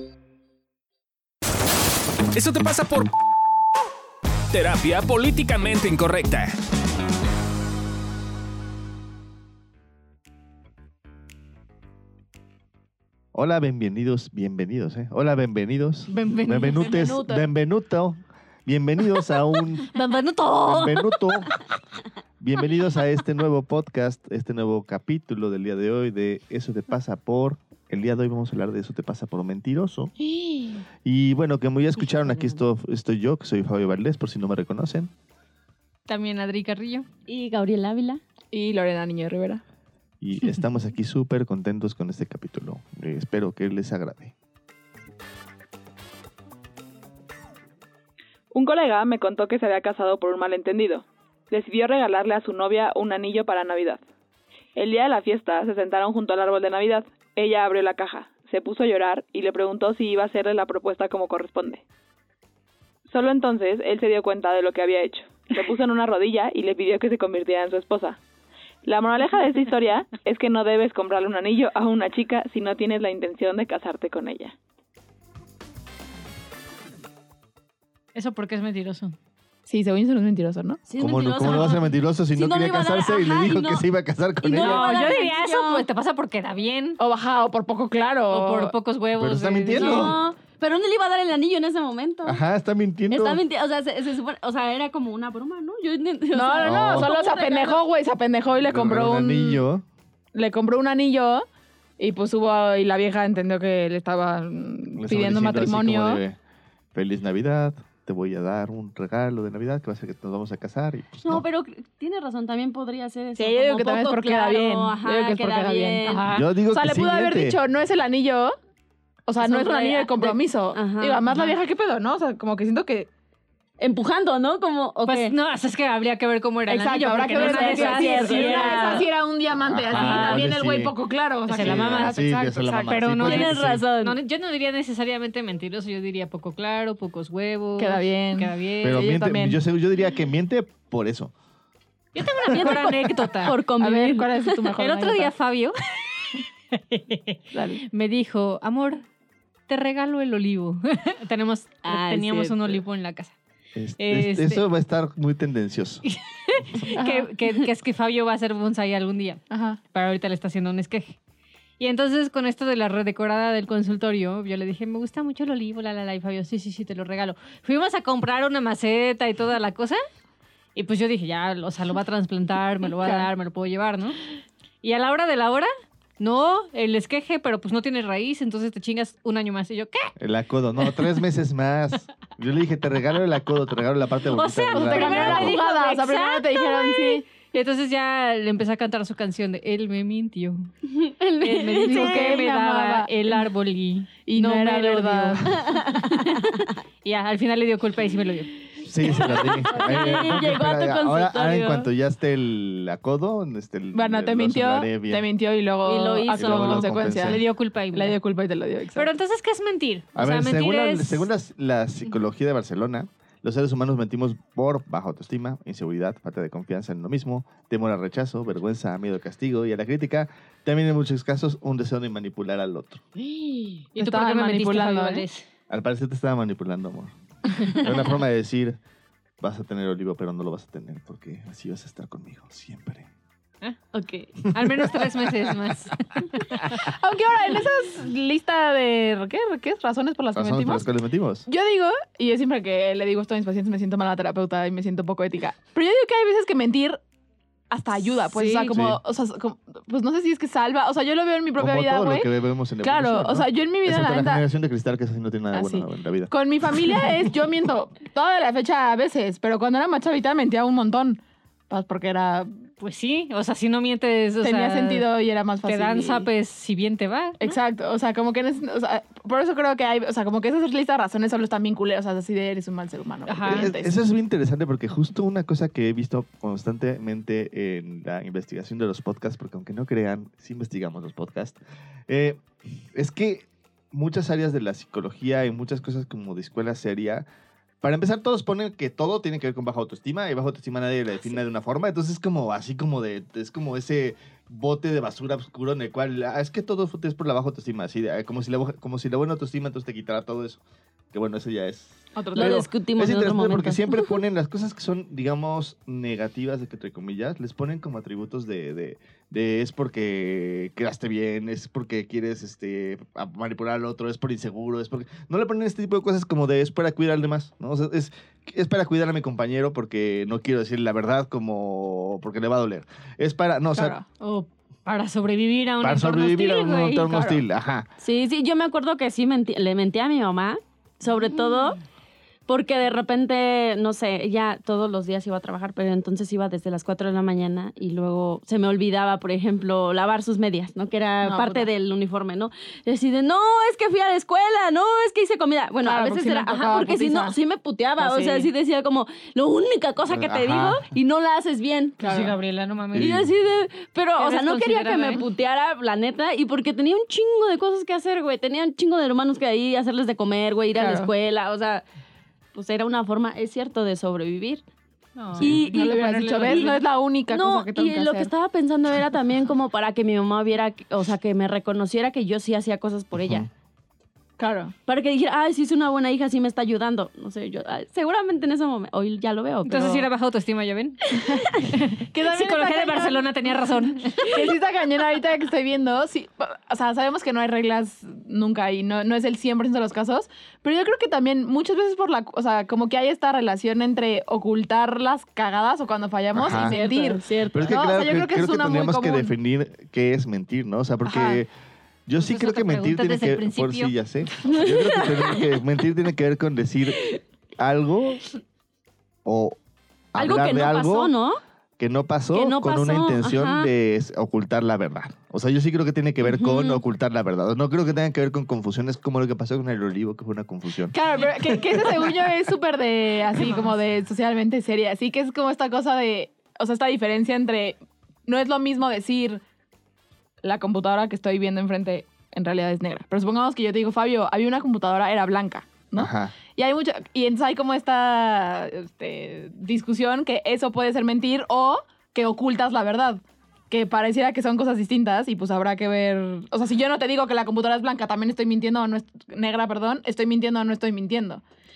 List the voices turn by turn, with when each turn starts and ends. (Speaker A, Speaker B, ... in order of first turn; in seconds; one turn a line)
Speaker A: 2.3-3.1
Speaker A: 4.5-6.5
Speaker B: 13.3-19.9
Speaker C: 16.1-17.4
Speaker D: 19.9-21.6
Speaker B: 20.7-21.6
Speaker B: 22.4-30.1
Speaker C: 30.2-30.8
Speaker B: 31.0-35.1
Speaker D: 36.1-37.0
Speaker E: 37.3-38.2
Speaker C: 38.5-39.6
Speaker B: 40.2-44.3
Speaker C: 48.5-54.0
Speaker C: 54.7-61.8
Speaker C: 63.1-68.2
Speaker C: 68.8-74.5
Speaker D: 78.1-79.2
Speaker C: 79.7-80.8
Speaker E: 80.9-83.8
Speaker B: 81.0-84.8
Speaker E: 84.4-85.2
Speaker D: 84.5-87.0
Speaker C: 84.6-85.8
Speaker C: 87.0-88.7
Speaker D: 88.3-90.2
Speaker B: 89.2-90.2
Speaker E: 89.7-92.4
Speaker B: 92.2-93.4
Speaker E: 93.1-97.8
Speaker C: 96.3-99.6
Speaker B: 96.6-97.1
Speaker B: 98.6-99.8
Speaker C: 100.3-101.4
Speaker C: 102.0-106.2
Speaker B: 104.9-106.4
Speaker B: 106.9-111.4
Speaker E: 111.2-116.3
Speaker C: 113.4-116.2
Speaker D: 116.0-116.5
Speaker B: 116.3-117.6
Speaker C: 116.7-118.5
Speaker C: 119.3-123.1
Speaker E: 119.4-121.2
Speaker D: 121.3-121.6
Speaker E: 123.8-125.3
Speaker D: 125.0-129.1
Speaker C: 126.7-133.0
Speaker E: 127.3-129.1
Speaker B: 129.6-130.9
Speaker D: 129.9-130.4
Speaker D: 131.5-132.2
Speaker B: 131.6-133.8
Speaker D: 132.8-139.1
Speaker E: 133.2-134.2
Speaker C: 137.8-139.6
Speaker B: 138.8-141.3
Speaker D: 142.1-143.6
Speaker B: 142.5-143.2
Speaker E: 142.5-144.3
Speaker C: 143.8-145.3
Speaker D: 144.8-147.4
Speaker C: 147.5-147.8
Speaker D: 147.9-149.0
Speaker D: 149.7-153.3
Speaker E: 151.8-152.8
Speaker B: 153.7-156.0
Speaker D: 154.0-154.6
Speaker D: 156.0-161.2
Speaker C: 156.9-157.2
Speaker C: 159.5-159.8
Speaker D: 161.8-170.0
Speaker D: 170.7-174.2
Speaker D: 174.8-180.1
Speaker B: 180.2-185.6
Speaker D: 184.3-190.7
Speaker C: 184.7-187.2
Speaker E: 190.8-192.5
Speaker D: 191.4-196.5
Speaker C: 191.8-193.4
Speaker C: 194.2-195.6
Speaker E: 195.7-196.6
Speaker D: 197.0-198.6
Speaker B: 198.8-205.2
Speaker E: 199.0-201.9
Speaker D: 199.1-200.4
Speaker C: 203.9-209.1
Speaker E: 205.8-206.9
Speaker B: 206.3-207.4
Speaker D: 206.9-208.2
Speaker D: 208.9-211.3
Speaker B: 210.1-223.0
Speaker E: 223.4-223.8
Speaker C: 223.9-225.2
Speaker D: 223.9-225.4
Speaker B: 225.7-228.8
Speaker B: 229.4-233.1
Speaker E: 233.9-234.3
Speaker D: 234.5-236.8
Speaker B: 234.5-235.5
Speaker C: 236.8-240.8
Speaker B: 240.3-241.5
Speaker C: 241.5-247.0
Speaker C: 247.7-252.3
Speaker D: 248.3-248.7
Speaker B: 248.7-249.0
Speaker B: 251.6-256.9
Speaker C: 252.8-254.4
Speaker C: 255.5-262.5
Speaker D: 262.8-265.1
Speaker C: 264.4-266.3
Speaker D: 265.6-267.5
Speaker C: 267.4-273.9
Speaker D: 273.2-273.7
Speaker B: 273.4-287.3
Speaker B: 287.8-300.6
Speaker B: 301.1-323.9
Speaker C: 302.1-302.7
Speaker E: 302.3-304.0
Speaker C: 323.7-324.0
Speaker D: 324.2-327.4
Speaker B: 325.8-327.9
Speaker E: 328.0-331.8
Speaker E: 332.5-352.0
Speaker C: 341.2-341.7
Speaker C: 345.8-347.4
Speaker C: 348.0-348.5
Speaker B: 350.1-350.9
Speaker C: 352.0-352.3
Speaker D: 352.0-353.2
Speaker B: 352.9-353.3
Speaker E: 353.0-361.9
Speaker D: 354.2-355.2
Speaker C: 360.7-361.1
Speaker E: 362.5-364.6
Speaker D: 365.1-366.8
Speaker C: 365.4-368.3
Speaker E: 365.4-365.7
Speaker E: 367.3-373.4
Speaker B: 373.1-373.5
Speaker C: 374.4-374.7
Speaker E: 374.9-380.1
Speaker D: 379.6-384.5
Speaker E: 381.1-381.4
Speaker C: 382.1-399.3
Speaker B: 396.3-396.8
Speaker E: 396.4-397.8
Speaker B: 397.5-401.5
Speaker C: 401.0-401.4
Speaker B: 402.1-407.0
Speaker D: 402.2-404.0
Speaker E: 404.5-405.4
Speaker B: 407.6-408.2
Speaker B: 409.2-409.6
Speaker B: 410.1-411.1
Speaker E: 410.2-411.4
Speaker B: 411.8-422.4
Speaker E: 412.3-413.7
Speaker E: 416.2-416.8
Speaker C: 420.9-429.4
Speaker C: 430.4-451.4
Speaker B: 435.9-436.3